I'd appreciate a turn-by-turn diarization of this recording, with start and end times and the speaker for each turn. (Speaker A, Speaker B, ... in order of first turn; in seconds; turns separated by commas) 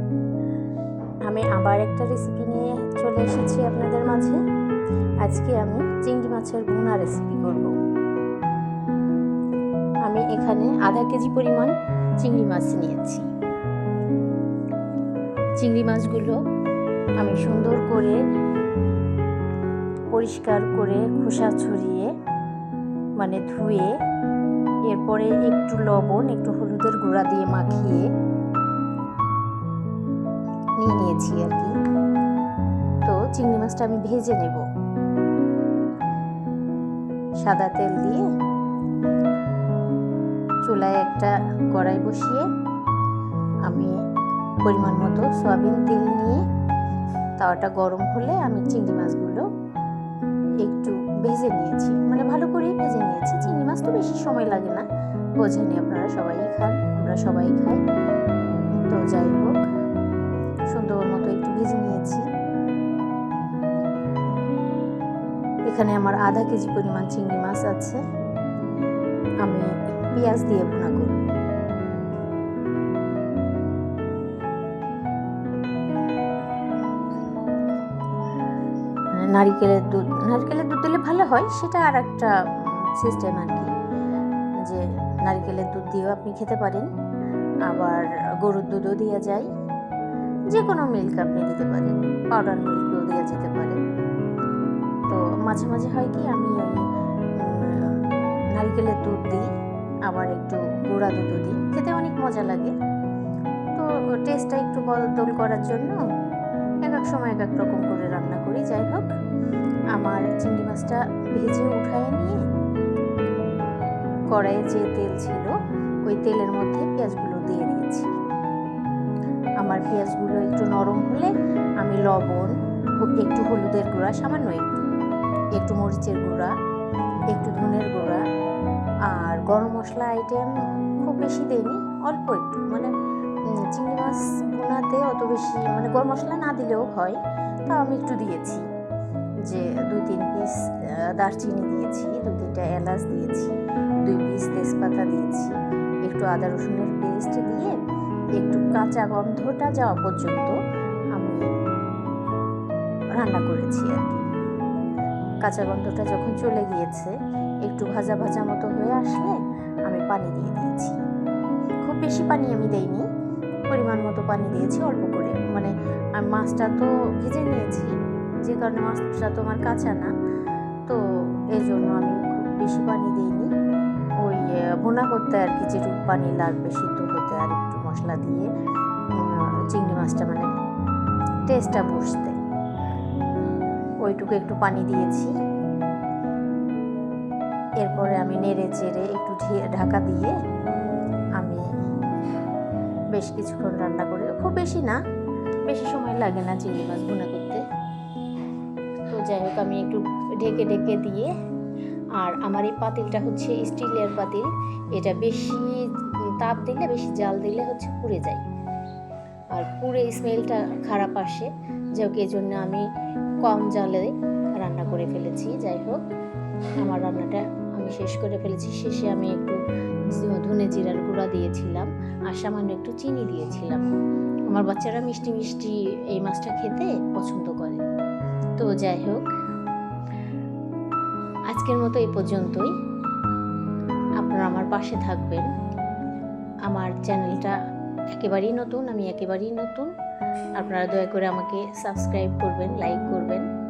Speaker A: 1.3-4.4, Speaker A: 5.2-7.7, Speaker A: 10.1-13.3, Speaker A: 15.6-16.4, Speaker A: 17.2-18.2, Speaker A: 20.1-22.1, Speaker A: 23.2-23.9, Speaker A: 24.9-28.1, Speaker A: 30.8-31.7, Speaker A: 33.0-34.6, Speaker A: 37.4-38.2, Speaker A: 40.6-42.5, Speaker A: 43.7-44.0, Speaker A: 44.6-46.4, Speaker A: 47.4-49.5, Speaker A: 50.6-54.9, Speaker A: 55.4-57.8, Speaker A: 58.9-59.5, Speaker A: 60.7-62.2, Speaker A: 65.7-68.0, Speaker A: 69.4-71.2, Speaker A: 79.1-83.7, Speaker A: 84.6-86.9, Speaker A: 87.7-89.5, Speaker A: 90.5-93.8, Speaker A: 95.1-99.5, Speaker A: 100.1-102.7, Speaker A: 103.7-106.0, Speaker A: 106.8-109.0, Speaker A: 109.9-112.4, Speaker A: 114.3-115.5, Speaker A: 116.1-118.1, Speaker A: 119.6-124.8, Speaker A: 125.6-126.5, Speaker A: 127.3-128.2, Speaker A: 129.1-132.9, Speaker A: 133.5-138.6, Speaker A: 139.4-145.5, Speaker A: 146.1-147.8, Speaker A: 148.4-150.6, Speaker A: 151.2-151.4, Speaker A: 153.2-154.2, Speaker A: 155.4-161.0, Speaker A: 161.8-163.1, Speaker A: 163.7-170.1, Speaker A: 170.9-173.5, Speaker A: 174.2-178.5, Speaker A: 179.1-180.5, Speaker A: 181.4-182.4, Speaker A: 184.0-185.3, Speaker A: 187.8-190.3, Speaker A: 191.4-191.6, Speaker A: 193.1-195.0, Speaker A: 195.7-197.6, Speaker A: 199.1-201.3, Speaker A: 202.2-208.4, Speaker A: 209.5-212.8, Speaker A: 213.4-216.0, Speaker A: 216.8-223.9, Speaker A: 224.5-227.8, Speaker A: 228.6-229.3, Speaker A: 231.5-232.7, Speaker A: 234.2-235.5, Speaker A: 236.7-237.6, Speaker A: 238.1-239.9, Speaker A: 240.6-243.4